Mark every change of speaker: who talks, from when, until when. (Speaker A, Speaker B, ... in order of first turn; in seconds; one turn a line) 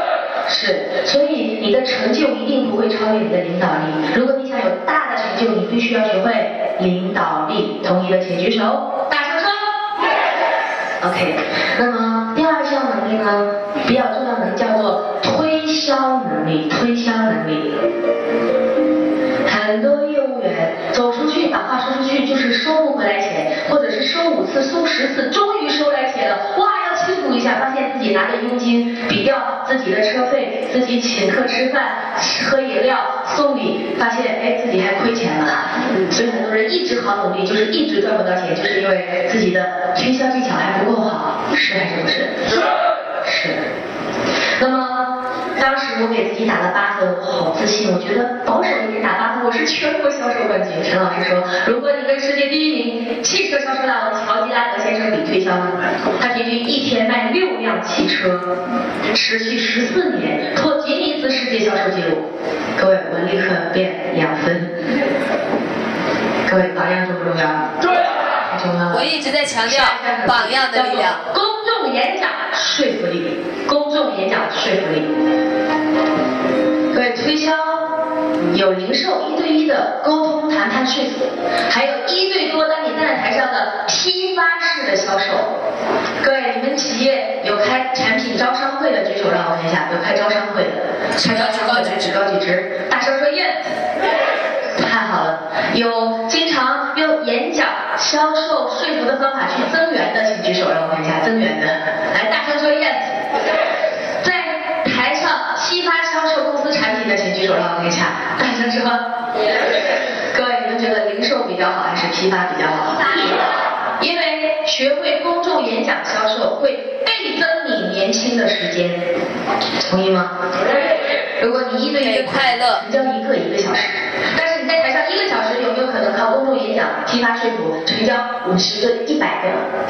Speaker A: 0.5-9.7
Speaker A: 11.0-17.8
Speaker A: 19.4-42.7
Speaker A: 43.2-43.7
Speaker A: 44.6-58.5
Speaker A: 59.1-64.7
Speaker A: 66.4-69.1
Speaker B: 68.9-71.2
Speaker A: 69.6-75.1
Speaker A: 76.9-78.0
Speaker A: 78.5-85.5
Speaker A: 86.2-93.6
Speaker B: 91.2-92.2
Speaker A: 94.7-103.3
Speaker A: 104.2-109.1
Speaker A: 110.2-119.1
Speaker A: 119.8-120.3
Speaker A: 121.4-129.7
Speaker B: 122.0-122.8